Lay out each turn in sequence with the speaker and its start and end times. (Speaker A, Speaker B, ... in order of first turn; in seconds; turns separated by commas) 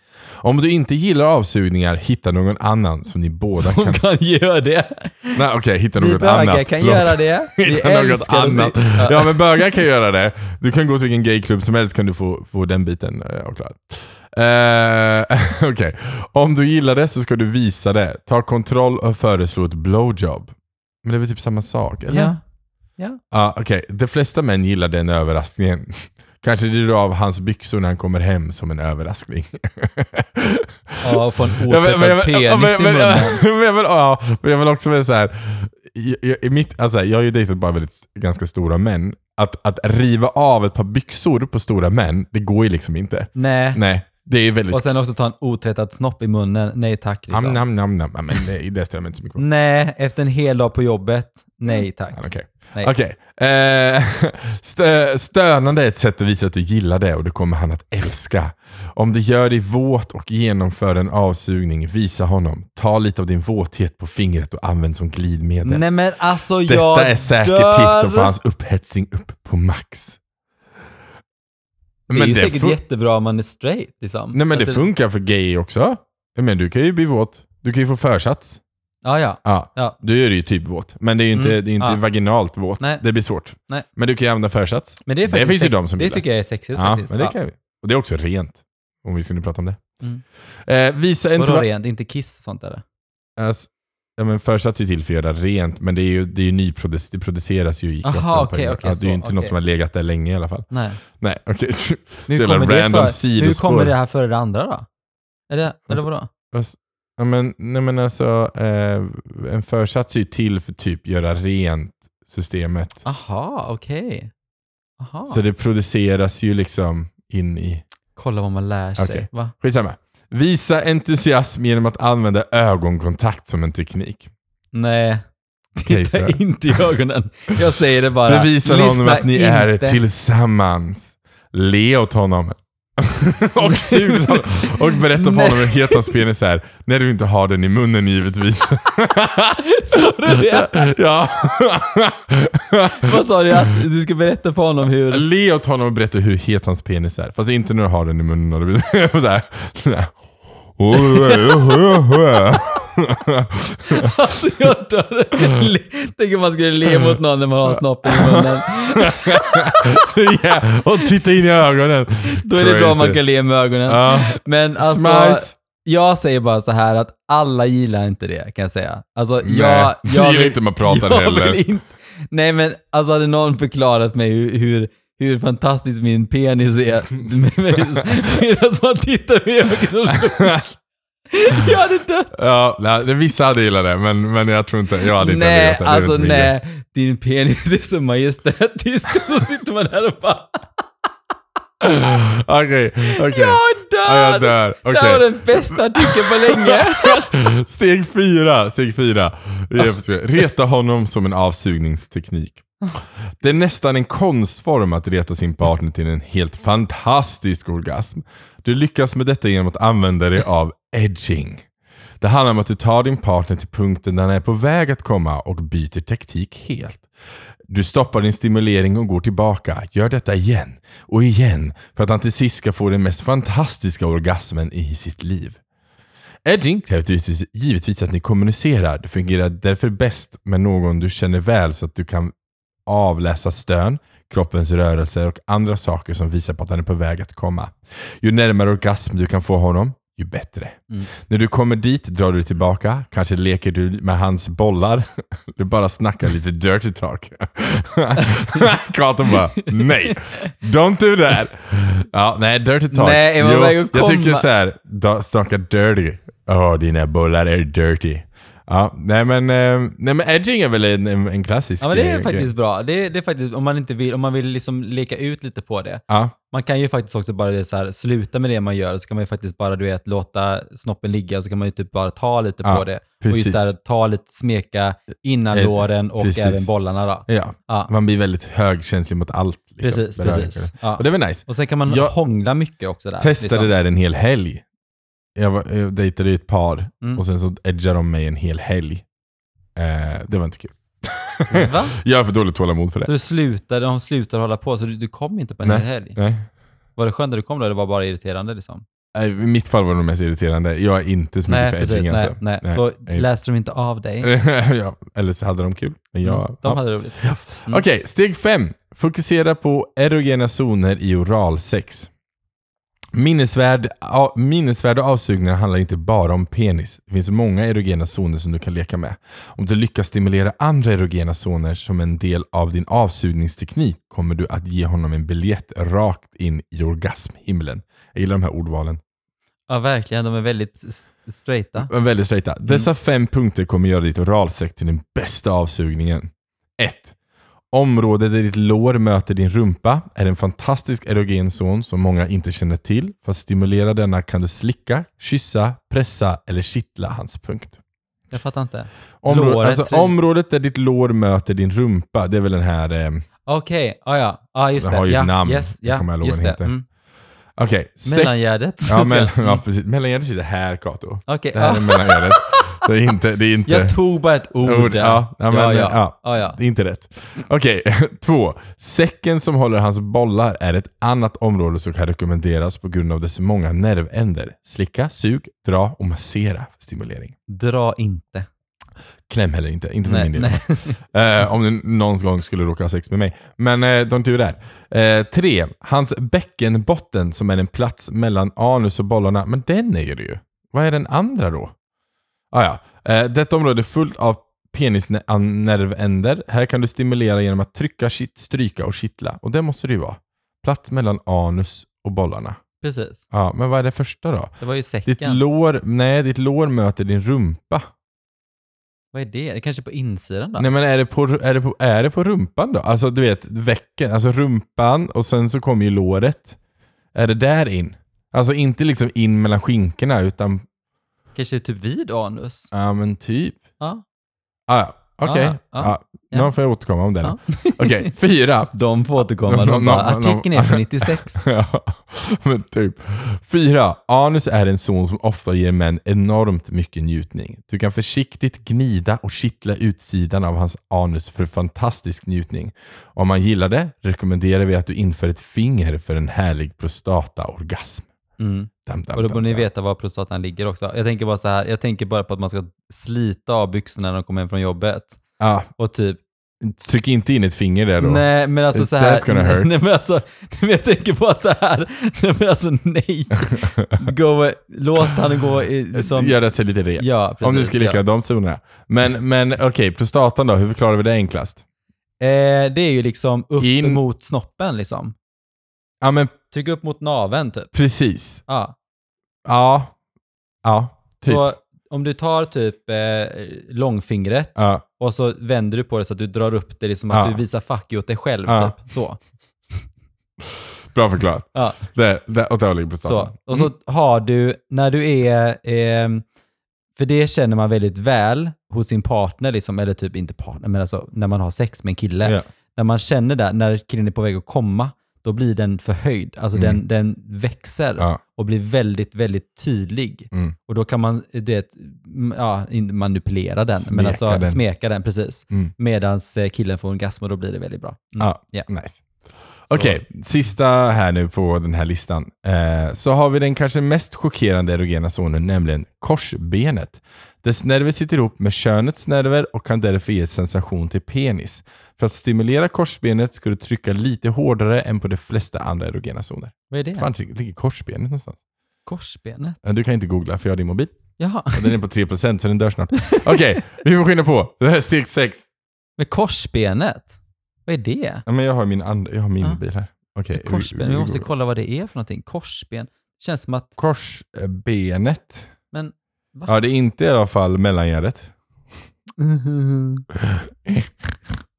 Speaker A: 0.4-4.0, Speaker B: 3.5-5.4, Speaker A: 5.3-22.3, Speaker B: 6.0-9.4, Speaker B: 22.1-22.4, Speaker A: 23.3-44.9, Speaker B: 31.0-33.4, Speaker B: 43.4-43.8, Speaker B: 44.7-47.6, Speaker A: 47.3-49.4, Speaker B: 49.4-52.9, Speaker A: 52.1-65.8, Speaker B: 65.6-68.3, Speaker A: 66.7-70.2, Speaker A: 72.1-72.8, Speaker B: 72.1-74.9, Speaker A: 74.3-78.6, Speaker B: 79.0-80.0, Speaker A: 79.4-86.2, Speaker B: 81.3-82.0, Speaker B: 82.8-83.0, Speaker B: 85.0-87.3, Speaker A: 86.7-89.8, Speaker A: 90.6-91.7, Speaker B: 91.4-92.8, Speaker A: 93.4-103.9, Speaker B: 98.0-99.5, Speaker B: 100.7-101.0, Speaker B: 102.3-104.9, Speaker B: 105.5-106.3, Speaker A: 105.9-113.0, Speaker B: 113.0-114.3, Speaker B: 115.0-115.4, Speaker A: 115.3-117.8, Speaker B: 118.2-119.5, Speaker A: 119.0-124.3, Speaker B: 124.7-125.2, Speaker B: 125.8-130.0, Speaker A: 125.8-126.8, Speaker A: 128.2-143.2, Speaker B: 133.6-136.2, Speaker B: 139.6-140.9, Speaker B: 143.0-145.2, Speaker A: 145.1-150.2, Speaker A: 150.8-154.1, Speaker B: 150.9-152.0, Speaker B: 153.9-160.1, Speaker A: 156.9-163.2, Speaker B: 162.3-180.8, Speaker A: 163.8-165.5, Speaker A: 169.4-171.6, Speaker A: 180.1-180.6, Speaker B: 181.3-182.5, Speaker A: 182.3-186.5, Speaker B: 185.1-190.7, Speaker A: 191.8-202.7, Speaker B: 193.1-197.3, Speaker A: 203.4-211.6, Speaker A: 212.2-217.1, Speaker A: 217.7-225.6, Speaker A: 226.4-232.3, Speaker A: 232.8-262.5, Speaker B: 248.2-248.6, Speaker B: 249.5-250.5, Speaker B: 252.9-254.4, Speaker B: 261.8-277.9, Speaker A: 266.1-266.3, Speaker A: 272.6-273.7, Speaker A: 275.5-276.7, Speaker A: 277.3-282.1, Speaker B: 279.8-283.7, Speaker A: 283.2-284.6, Speaker A: 285.3-289.0, Speaker A: 289.8-293.1, Speaker B: 291.5-291.9, Speaker B: 293.0-296.2, Speaker A: 295.6-296.5, Speaker B: 297.0-298.8, Speaker A: 299.1-303.2, Speaker B: 301.5-304.3, Speaker A: 304.2-312.1, Speaker B: 306.2-307.8, Speaker A: 313.1-329.0, Speaker B: 329.7-331.9, Speaker A: 331.9-337.1, Speaker A: 337.7-347.8, Speaker B: 348.3-350.1, Speaker A: 349.2-353.2, Speaker B: 353.5-356.8, Speaker A: 354.8-356.7, Speaker A: 357.6-363.9, Speaker B: 358.0-359.6, Speaker B: 361.3-362.8, Speaker B: 363.7-366.6, Speaker A: 364.6-377.3, Speaker B: 377.5-378.5, Speaker A: 379.3-391.7, Speaker B: 380.0-381.0, Speaker A: 392.5-402.6, Speaker B: 402.8-403.2, Speaker A: 403.3-404.5, Speaker B: 404.6-405.4, Speaker A: 405.1-407.9, Speaker B: 409.1-410.7, Speaker A: 410.6-416.6, Speaker A: 417.1-420.6, Speaker B: 421.3-422.7, Speaker A: 422.7-423.6, Speaker A: 424.7-428.7, Speaker B: 425.2-426.5, Speaker B: 427.2-428.1, Speaker B: 428.7-431.4, Speaker A: 429.4-448.1, Speaker B: 448.4-455.2, Speaker A: 448.9-449.6, Speaker A: 455.4-455.7, Speaker B: 455.8-456.2, Speaker A: 456.6-459.7, Speaker B: 458.0-466.4, Speaker A: 463.6-464.0, Speaker A: 465.9-471.6, Speaker B: 467.0-468.0, Speaker B: 472.2-475.1, Speaker A: 473.6-474.0, Speaker A: 476.0-476.3, Speaker B: 476.5-477.7, Speaker A: 477.7-478.4, Speaker B: 478.5-478.7, Speaker A: 479.4-479.9, Speaker A: 480.6-481.4, Speaker B: 481.2-489.2, Speaker A: 484.6-484.8, Speaker A: 487.1-487.4, Speaker A: 488.5-488.8, Speaker A: 490.9-493.7, Speaker B: 491.5-491.8, Speaker B: 493.0-496.2, Speaker B: 497.0-518.7, Speaker A: 506.5-506.8, Speaker A: 513.7-514.6, Speaker A: 518.2-519.0, Speaker A: 519.7-538.4, Speaker B: 519.7-520.0, Speaker B: 536.7-537.1, Speaker B: 538.9-539.6, Speaker A: 539.6-545.4, Speaker B: 541.2-541.7, Speaker B: 543.0-543.4, Speaker B: 546.0-548.2, Speaker A: 548.2-551.3, Speaker B: 550.3-553.7, Speaker A: 553.8-555.5, Speaker B: 555.7-556.5, Speaker A: 556.5-558.3, Speaker B: 559.2-560.0, Speaker A: 560.3-561.1